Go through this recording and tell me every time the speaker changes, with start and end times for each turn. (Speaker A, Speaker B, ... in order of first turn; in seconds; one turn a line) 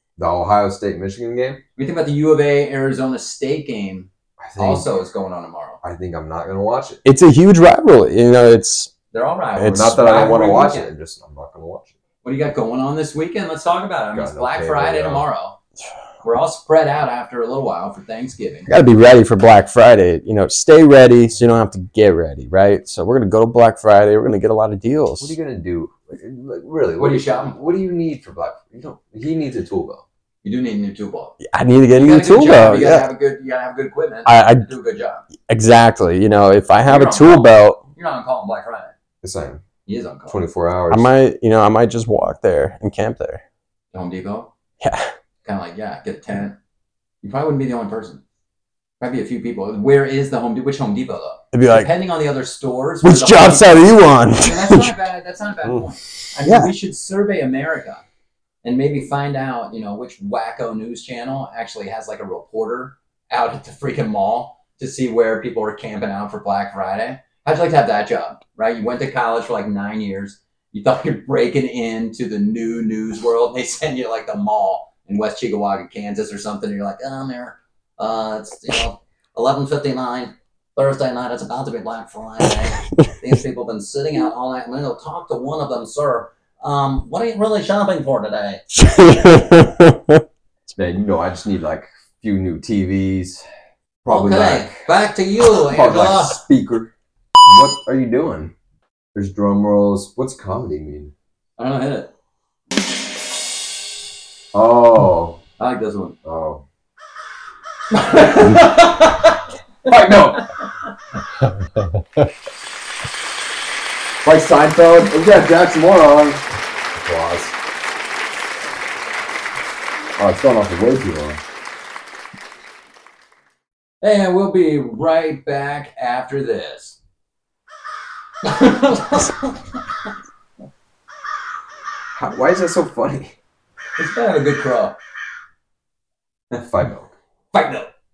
Speaker A: 0.2-1.6
Speaker B: 1.8-5.8
Speaker A: 4.4-4.9
Speaker A: 5.8-7.0
Speaker C: 7.0-8.9
Speaker B: 9.1-10.9
Speaker A: 9.6-11.9
Speaker C: 9.6-10.1
Speaker B: 12.2-15.6
Speaker A: 14.1-15.2
Speaker B: 16.2-18.7
Speaker C: 18.7-25.3
Speaker A: 25.2-30.0
Speaker B: 27.0-27.6
Speaker B: 30.4-31.4
Speaker C: 31.4-33.1
Speaker B: 31.9-35.2
Speaker C: 34.2-34.7
Speaker C: 35.5-37.8
Speaker B: 36.8-38.9
Speaker A: 39.2-39.6
Speaker B: 39.9-40.4
Speaker A: 40.3-41.1
Speaker C: 40.9-43.4
Speaker B: 43.9-44.5
Speaker C: 44.8-45.1
Speaker B: 45.4-46.5
Speaker B: 47.2-48.2
Speaker B: 49.0-58.0
Speaker C: 51.5-51.9
Speaker C: 53.0-55.0
Speaker C: 56.4-56.7
Speaker B: 58.6-88.6
Speaker C: 88.7-90.2
Speaker A: 90.7-93.4
Speaker A: 94.0-94.8
Speaker B: 94.1-96.4
Speaker A: 95.5-96.9
Speaker A: 97.4-98.5
Speaker A: 99.1-101.1
Speaker B: 101.6-102.1
Speaker A: 104.5-105.4
Speaker B: 105.6-106.2
Speaker A: 106.2-106.6
Speaker B: 107.9-110.5
Speaker A: 109.8-110.5
Speaker A: 114.2-117.5
Speaker A: 120.2-121.4
Speaker B: 124.0-127.0
Speaker B: 128.4-130.1
Speaker A: 132.1-133.3
Speaker B: 134.0-134.9
Speaker A: 136.5-137.1
Speaker B: 137.5-137.9